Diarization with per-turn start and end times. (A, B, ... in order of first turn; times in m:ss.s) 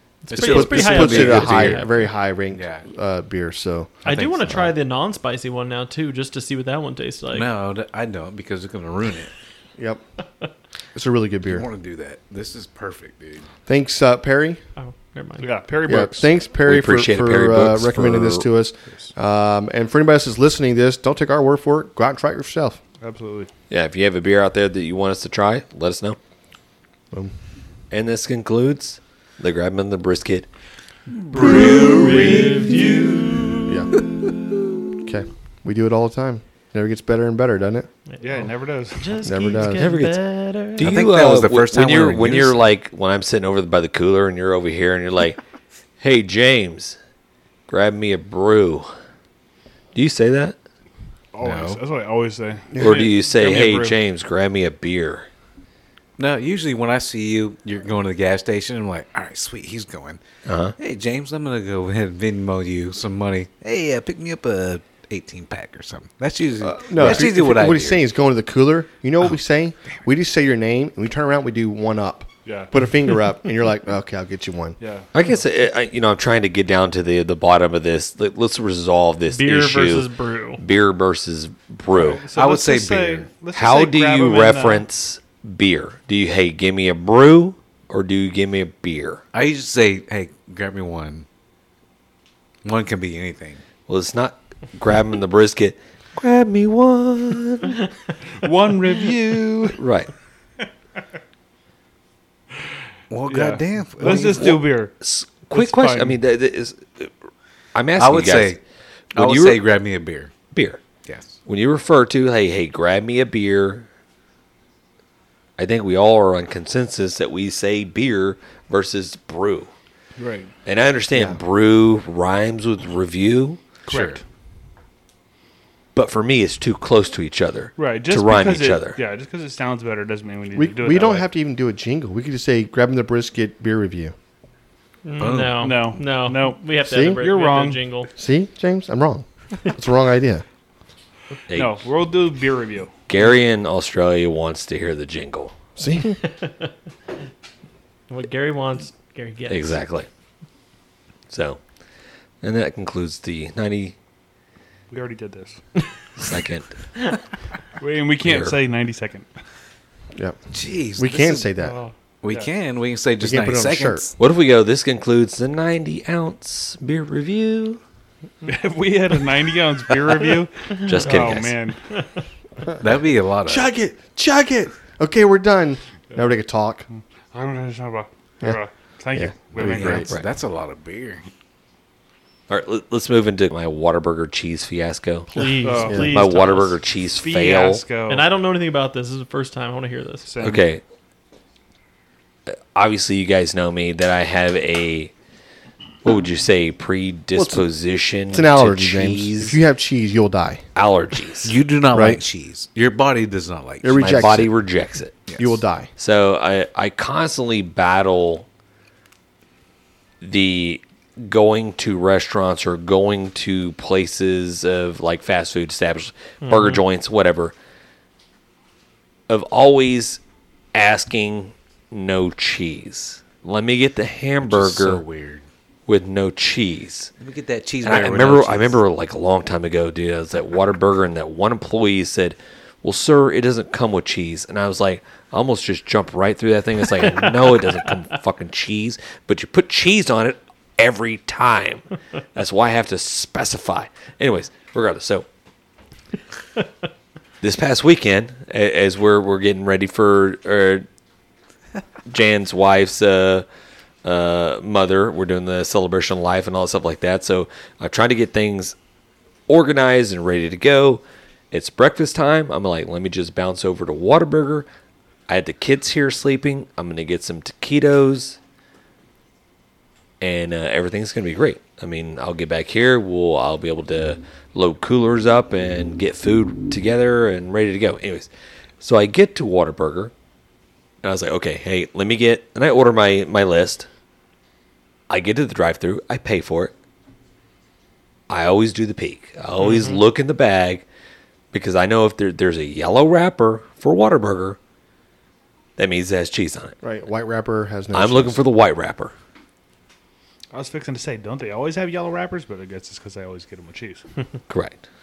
0:00.2-0:02.0 A
0:00.3-0:01.8 B
0:00.4-0:04.7 C
0:01.1-0:01.5 D
0:02.5-0:02.8 B
0:04.0-0:07.5 A
0:04.1-0:04.6 B
0:07.3-0:09.3 B
0:09.8-0:10.0 C
0:10.9-0:11.7 C
0:11.5-0:13.5 B
0:13.7-0:14.6 C
0:14.8-0:15.5 A
0:15.4-0:16.3 E
0:15.8-0:22.8 C
0:16.6-0:18.5 D
0:23.0-0:23.5 E
0:23.7-0:26.2 D
0:27.9-0:30.5 D
0:31.3-0:33.5 A
0:31.3-0:33.7 D
0:31.5-0:32.2 B
0:31.6-0:31.9 E
0:33.7-0:34.0 C
0:35.0-0:37.9 C
0:38.1-0:38.4 A
0:38.2-0:39.2 E
0:39.0-0:41.0 A
0:39.2-0:39.8 C
0:39.7-0:45.4 D
0:40.8-0:42.6 B
0:46.0-0:47.0 D
0:47.7-0:48.9 D
0:49.9-0:50.6 D
0:51.3-0:54.0 E
0:51.4-0:51.8 B
0:52.7-0:53.0 C
0:52.8-0:55.3 D
0:56.2-1:00.2 B
1:00.4-1:00.7 D
1:00.8-1:08.0 B
1:06.6-1:14.8 C
1:12.4-1:12.7 E
1:14.8-1:15.1 E
1:15.1-1:22.2 D
1:19.3-1:20.6 A
1:21.9-1:24.8 E
1:22.3-1:23.3 B
1:23.5-1:29.2 D
1:29.3-1:31.2 B
1:32.6-1:33.6 B
1:33.9-1:37.8 D
1:38.4-1:39.8 E
1:39.8-1:40.1 D
1:43.1-1:44.6 B
1:43.3-1:44.9 E
1:44.0-1:47.1 D
1:45.5-1:46.2 E
1:47.7-1:48.6 D
1:48.0-1:48.6 B
1:49.1-1:49.6 D
1:49.2-1:50.3 B
1:50.5-1:50.8 D
1:51.1-1:51.3 B
1:51.4-1:53.8 D
1:55.6-1:59.7 D
2:00.2-2:00.5 E
2:00.6-2:03.6 D
2:01.1-2:01.4 C
2:03.8-2:04.2 E
2:03.9-2:04.2 B
2:05.9-2:09.0 D
2:07.8-2:11.3 E
2:10.5-2:14.1 C
2:15.0-2:18.1 A
2:15.2-2:15.8 B
2:15.5-2:17.8 E
2:16.9-2:17.2 C
2:18.1-2:20.4 C
2:21.5-2:21.8 D
2:21.5-2:22.9 E
2:23.1-2:25.5 D
2:25.8-2:26.2 C
2:26.3-2:26.7 A
2:28.1-2:29.8 A
2:29.5-2:30.1 D
2:31.3-2:31.6 D
2:32.4-2:33.9 D
2:34.9-2:35.6 E
2:36.2-2:36.7 D
2:37.8-2:39.3 E
2:38.2-2:38.6 D
2:40.5-2:41.5 B
2:41.0-2:41.8 C
2:41.6-2:41.9 A
2:42.2-2:44.1 B
2:43.2-2:44.1 C
2:44.2-2:47.8 D
2:48.4-2:52.0 E
2:50.8-2:51.6 D
2:52.8-2:53.7 B
2:53.4-2:56.8 C
2:56.9-3:00.1 E
2:59.1-3:00.1 C
2:59.5-3:01.3 B
3:02.5-3:05.4 D
3:05.3-3:06.8 A
3:05.6-3:06.2 E
3:05.8-3:06.1 C
3:06.1-3:07.8 D
3:07.2-3:08.3 E
3:08.1-3:10.3 A
3:10.2-3:10.6 E
3:10.4-3:10.8 D
3:12.5-3:15.1 D
3:16.0-3:19.6 D
3:17.3-3:17.6 C
3:18.3-3:20.6 C
3:20.7-3:21.5 D
3:21.4-3:24.1 B
3:21.9-3:22.2 C
3:23.8-3:24.5 C
3:24.0-3:25.2 D
3:25.3-3:25.6 B
3:25.4-3:25.9 C
3:26.0-3:28.5 D
3:30.2-3:37.5 D
3:36.4-3:36.8 A
3:39.3-3:40.2 D
3:40.7-3:45.0 D
3:44.4-3:45.4 B
3:45.9-3:47.1 D
3:47.2-3:48.8 B
3:47.8-4:05.2 D
4:07.4-4:10.8 D
4:12.1-4:13.4 D
4:14.0-4:18.8 D
4:19.5-4:24.7 D
4:25.3-4:28.4 D
4:30.2-4:38.3 D
4:38.8-4:40.1 D
4:41.0-4:43.9 D
4:45.1-4:46.7 D
4:48.3-4:50.8 D
4:49.6-4:50.0 A
4:51.5-4:54.6 D
4:55.8-4:56.7 D
4:56.8-4:58.4 C
4:57.9-4:59.1 D
5:00.5-5:04.1 E
5:04.5-5:04.8 D